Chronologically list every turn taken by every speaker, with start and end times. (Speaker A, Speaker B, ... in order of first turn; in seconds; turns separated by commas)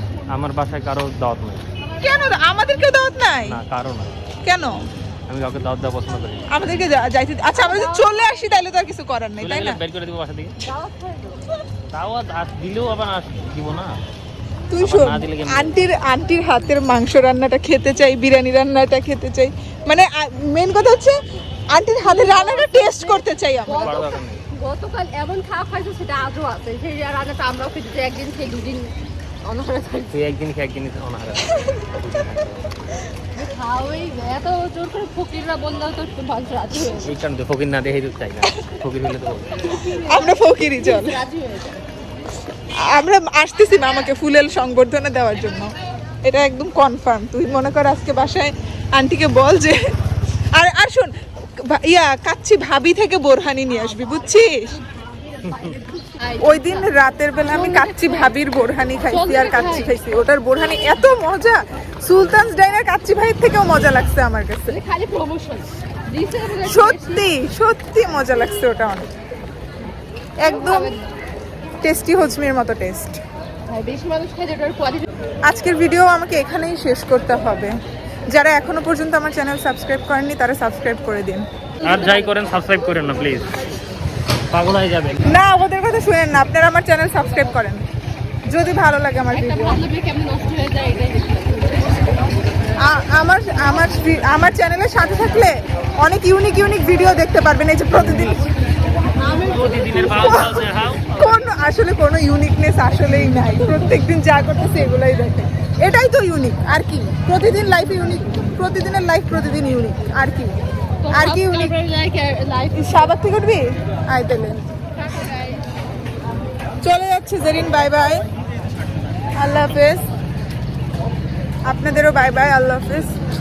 Speaker A: 0.3-1.6, Speaker B: 2.0-3.6, Speaker A: 3.5-4.1, Speaker B: 4.4-4.8, Speaker A: 5.3-6.8, Speaker B: 6.5-9.8, Speaker C: 7.5-8.3, Speaker A: 9.4-10.6, Speaker C: 10.6-11.4, Speaker A: 11.9-13.9, Speaker B: 14.7-21.1, Speaker A: 14.8-15.8, Speaker B: 21.7-23.9, Speaker C: 22.0-30.1, Speaker A: 23.7-24.4, Speaker A: 30.1-32.7, Speaker C: 33.3-37.1, Speaker A: 37.0-39.6, Speaker C: 39.6-41.8, Speaker B: 40.0-41.2, Speaker B: 42.7-45.7, Speaker B: 46.2-49.8, Speaker B: 50.5-54.7, Speaker A: 55.4-55.8, Speaker C: 56.1-58.3, Speaker B: 56.4-64.7, Speaker C: 59.1-60.0, Speaker C: 64.7-67.2, Speaker B: 66.7-69.1, Speaker B: 70.4-70.9, Speaker C: 70.4-71.0, Speaker B: 71.8-73.2, Speaker C: 73.7-75.1, Speaker B: 75.4-77.7, Speaker B: 78.3-81.5, Speaker C: 81.8-82.3, Speaker A: 81.8-83.5, Speaker A: 84.5-85.3, Speaker B: 85.2-87.8, Speaker B: 88.5-89.8, Speaker C: 89.3-92.4, Speaker B: 92.8-98.4, Speaker C: 99.1-100.4, Speaker A: 99.5-101.4, Speaker B: 100.1-110.6, Speaker C: 111.0-113.0, Speaker B: 111.1-111.7, Speaker B: 112.7-114.6, Speaker C: 114.9-115.6, Speaker B: 116.8-118.2, Speaker B: 119.3-120.0, Speaker B: 121.6-123.1